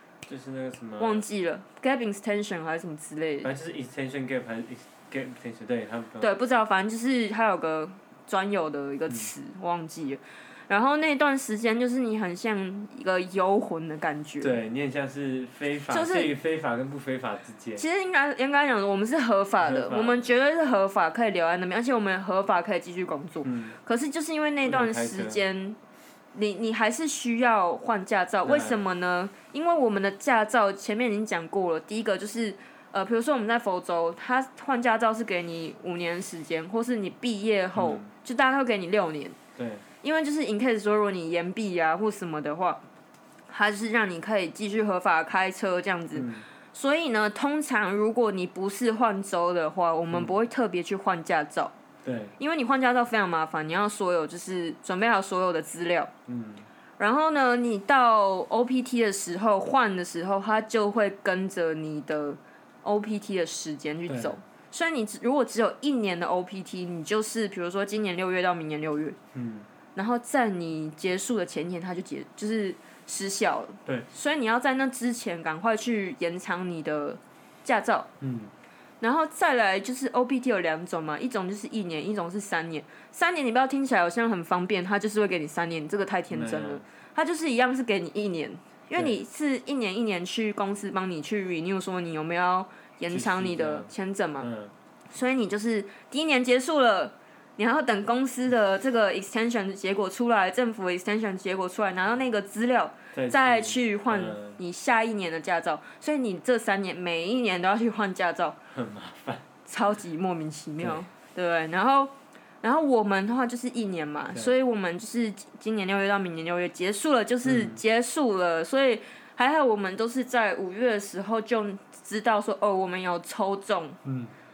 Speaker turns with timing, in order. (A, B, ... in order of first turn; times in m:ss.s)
0:00.3-0:01.2 A
0:01.0-0:03.5 B
0:03.4-0:06.3 A
0:06.2-0:14.6 B
0:14.4-0:17.8 A
0:15.9-0:16.4 B
0:17.8-0:25.8 B
0:19.6-0:20.3 A
0:23.4-0:23.8 A
0:24.6-0:25.4 A
0:26.3-0:39.4 B
0:28.4-0:28.9 A
0:37.8-0:38.1 A
0:39.6-0:39.8 A
0:40.0-0:42.8 B
0:43.5-0:51.7 B
0:46.1-0:46.5 A
0:50.1-0:50.4 A
0:52.0-0:52.4 A
0:52.4-0:56.1 B
0:56.3-0:56.7 A
0:57.0-1:09.2 B
1:04.1-1:04.4 A
1:09.3-1:09.7 A
1:10.0-1:18.1 B
1:18.2-1:18.5 A
1:19.0-1:34.5 B
1:26.3-1:26.8 A
1:33.1-1:34.7 A
1:35.1-1:48.6 B
1:43.1-1:44.6 A
1:48.7-1:49.5 A
1:49.7-2:04.0 B
1:57.4-1:57.8 A
2:04.0-2:04.3 A